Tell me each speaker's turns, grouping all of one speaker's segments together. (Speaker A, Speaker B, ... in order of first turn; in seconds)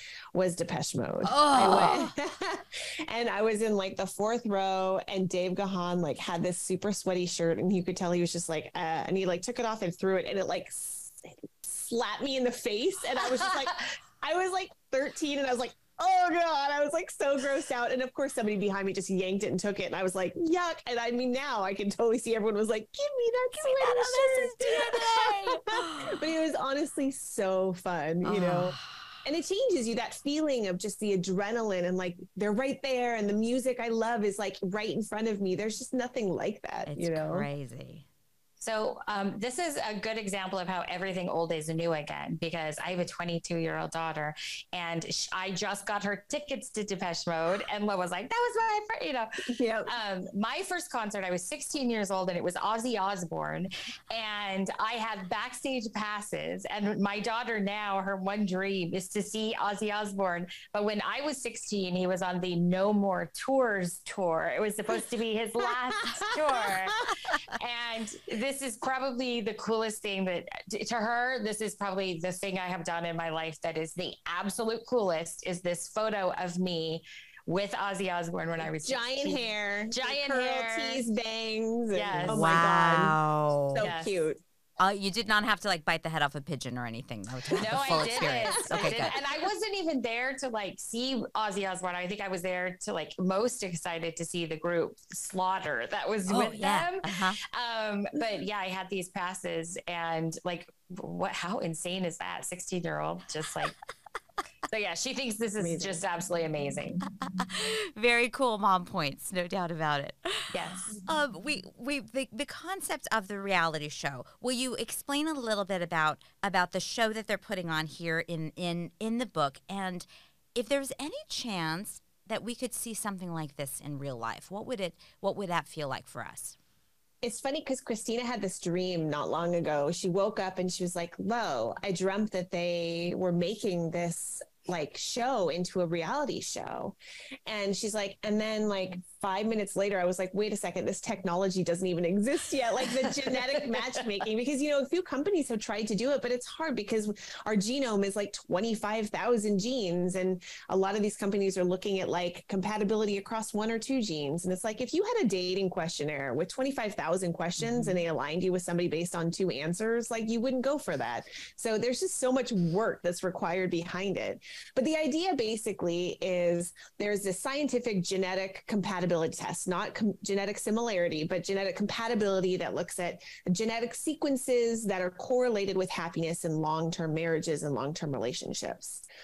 Speaker A: 0.3-37.5, 49.5-49.9, 66.3-66.6, 78.6-83.2, 83.7-84.4, 87.9-89.2, 105.6-106.0, 127.2-179.0
Speaker B: 1.2-2.1, 23.6-26.2, 28.2-29.1, 36.9-38.0, 82.2-83.9, 84.8-89.2, 96.2-97.4, 107.1-126.6
Speaker C: 13.5-13.8, 38.6-49.3, 49.9-81.0, 81.9-82.6, 83.8-84.2, 87.5-103.8, 104.7-107.0, 110.5-111.0